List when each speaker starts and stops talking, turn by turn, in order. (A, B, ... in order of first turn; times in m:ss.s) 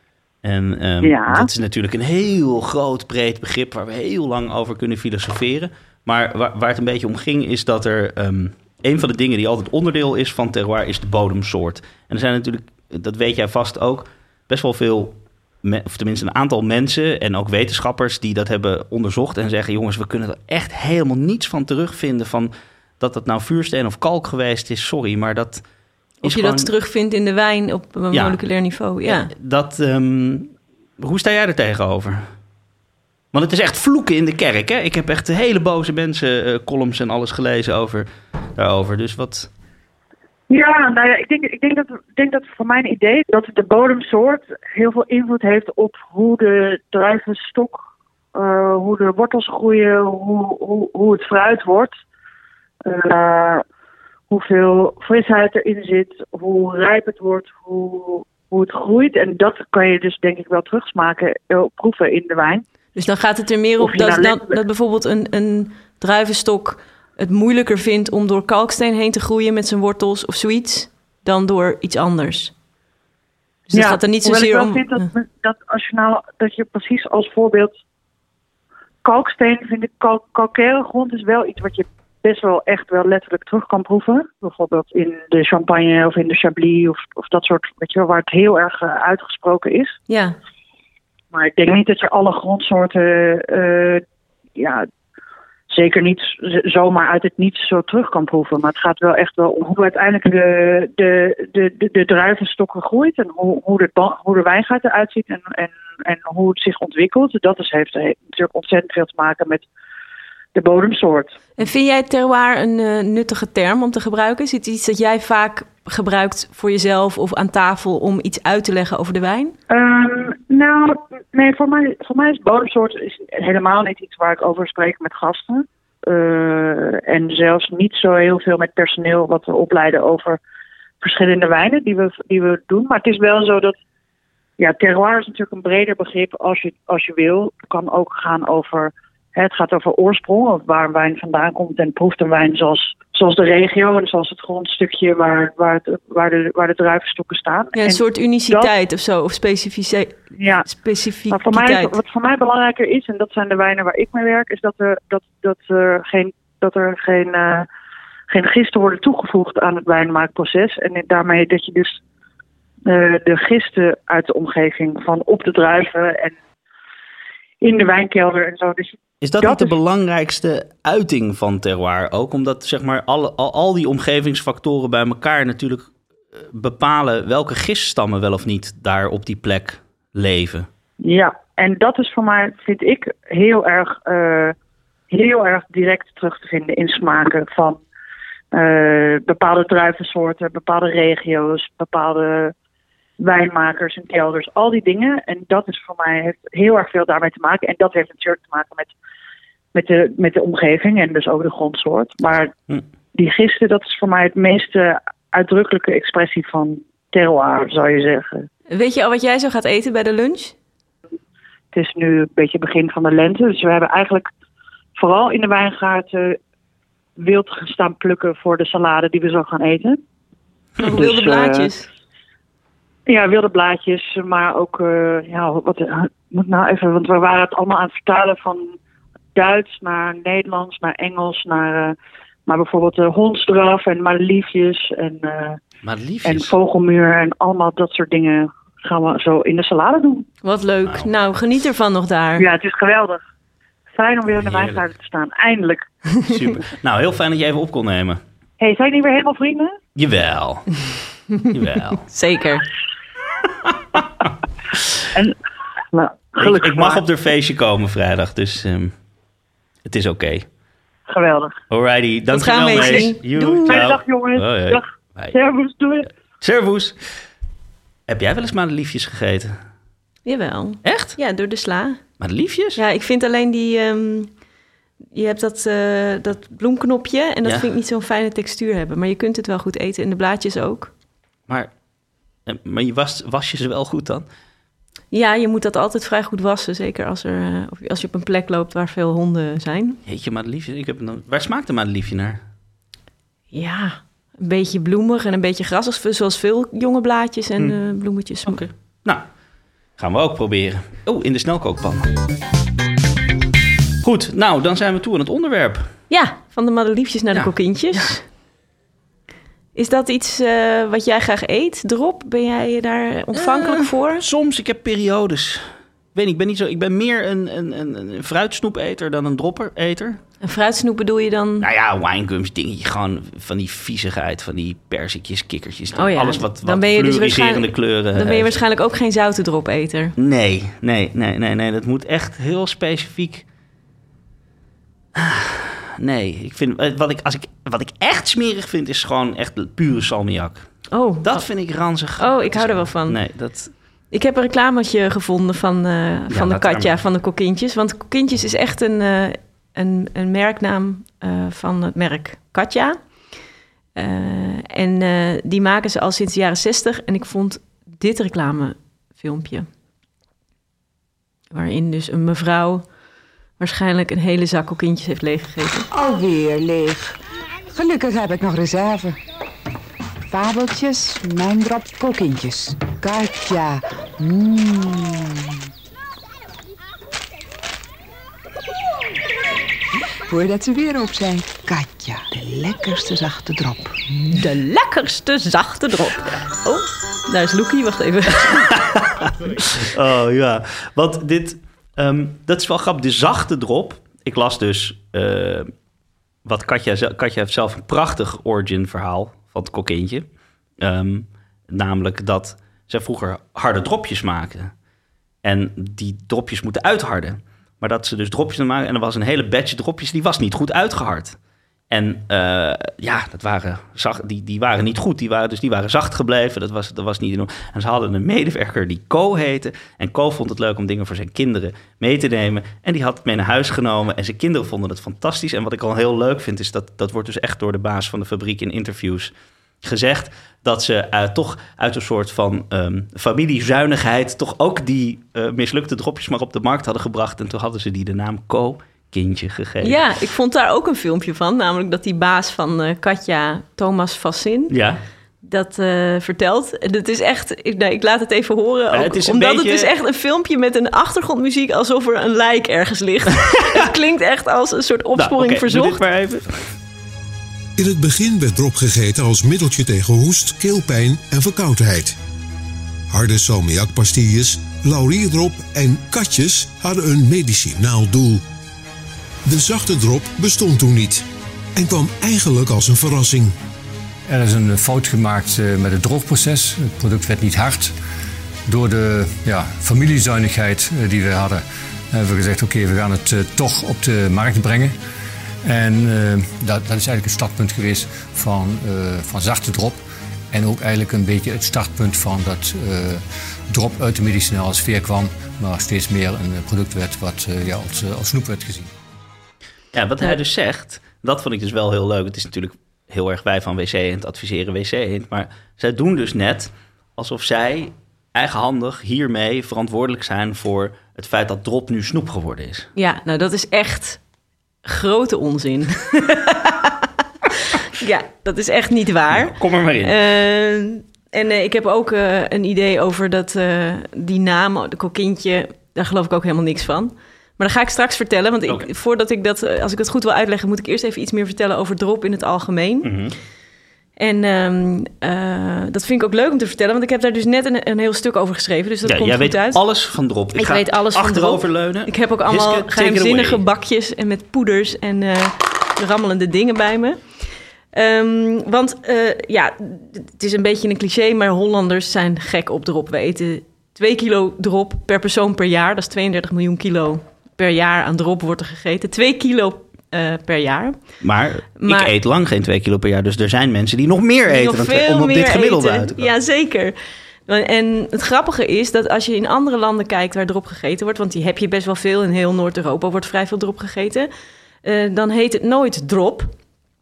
0:00.4-0:25.6 A
0:01.0-0:01.5 B
0:26.2-0:29.3 C
0:26.2-0:26.7 A
0:28.1-0:28.4 A
0:29.0-0:32.3 A
0:33.3-0:39.5 A
0:40.5-0:51.9 B
0:52.8-0:53.6 B
0:54.3-1:02.6 B
1:03.0-1:12.5 C
1:03.8-1:04.6 B
1:13.7-1:15.0 C
1:13.7-1:17.8 B
1:19.0-1:30.0 B
1:30.1-1:30.4 C
1:31.3-1:34.0 B
1:34.5-1:34.9 B
1:35.7-1:49.6 B
1:50.5-1:51.4 B
1:51.6-1:59.5 C
1:59.7-2:10.4 B
2:11.0-2:13.8 B
2:14.6-2:28.7 B
2:27.8-2:31.9 C
2:30.4-2:30.6 B
2:31.3-2:37.7 B
2:38.3-2:42.0 B
2:42.9-2:46.3 B
2:47.6-2:49.7 B
2:49.2-3:00.7 A
3:01.0-3:04.5 B
3:05.1-3:07.8 B
3:08.5-3:12.5 B
3:13.2-3:18.9 B
3:19.7-3:22.6 B
3:23.1-3:28.5 B
3:28.7-3:30.6 C
3:31.7-3:34.3 B
3:35.0-3:36.4 B
3:37.2-3:40.0 B
3:40.8-3:41.9 C
3:40.8-3:41.7 B
3:43.1-3:48.8 B
3:49.3-3:51.9 B
3:52.5-3:55.6 B
3:55.8-3:56.5 A
3:56.2-4:00.3 B
4:00.4-4:02.4 C
4:02.4-4:03.2 B
4:04.0-4:05.8 B
4:04.4-4:04.8 A
4:06.3-4:08.2 A
4:08.6-4:09.7 B
4:09.9-4:10.7 A
4:11.3-4:12.6 C
4:11.5-4:12.0 A
4:15.9-4:17.0 B
4:16.4-4:18.9 A
4:19.8-4:20.4 A
4:21.1-4:21.6 B
4:21.7-4:25.3 A
4:22.3-4:23.8 C
4:22.7-4:26.1 B
4:26.4-4:27.0 A
4:28.1-4:29.6 A
4:30.2-4:32.0 C
4:30.8-4:31.2 A
4:32.2-4:32.8 A
4:32.8-4:34.3 C
4:35.1-4:40.9 C
4:37.4-4:37.7 A
4:42.4-4:44.2 A
4:45.1-4:50.0 C
4:50.0-4:52.4 A
4:53.5-4:58.6 C
4:58.4-4:59.2 A
5:00.0-5:02.1 A
5:04.0-5:05.9 A
5:06.1-5:08.2 C
5:07.3-5:08.2 A
5:09.7-5:14.2 C
5:13.4-5:20.2 A
5:20.4-5:21.6 C
5:21.6-5:28.5 A
5:25.9-5:30.1 C
5:30.2-5:33.4 A
5:35.2-5:40.7 A
5:40.9-5:41.5 C
5:41.2-5:43.7 A
5:42.2-5:43.2 C
5:44.1-5:53.0 C
5:46.3-5:46.9 A
5:53.9-5:59.7 C
6:01.5-6:02.8 C
6:03.6-6:05.9 C
6:05.9-6:07.2 D
6:07.7-6:09.2 D
6:10.3-6:15.5 D
6:20.2-6:24.4 D
6:24.3-6:26.5 C
6:27.3-6:28.7 C
6:28.5-6:35.7 A
6:36.4-6:40.3 A
6:40.8-6:44.7 A
6:45.4-6:51.4 A
6:51.9-7:20.0 A
7:19.8-7:24.8 C
7:24.7-7:25.0 A
7:25.4-7:36.0 C
7:28.9-7:29.9 A
7:35.2-7:36.7 A
7:37.8-7:42.2 E
7:43.1-7:48.4 E
7:49.4-7:53.5 E
7:54.3-7:57.9 F
7:58.7-8:04.9 F
8:05.6-8:10.0 F
8:10.5-8:18.9 F
8:19.9-8:32.9 A
8:33.0-8:34.2 C
8:34.8-8:37.0 C
8:38.0-8:53.1 C
8:39.3-8:40.1 A
8:53.0-8:53.4 A
8:54.2-8:59.8 C
8:59.0-9:03.6 A
9:00.5-9:07.2 C
9:07.9-9:21.0 C
9:21.2-9:26.3 A
9:21.8-9:22.1 C
9:24.5-9:27.0 C
9:27.5-9:34.3 C
9:34.8-9:36.5 C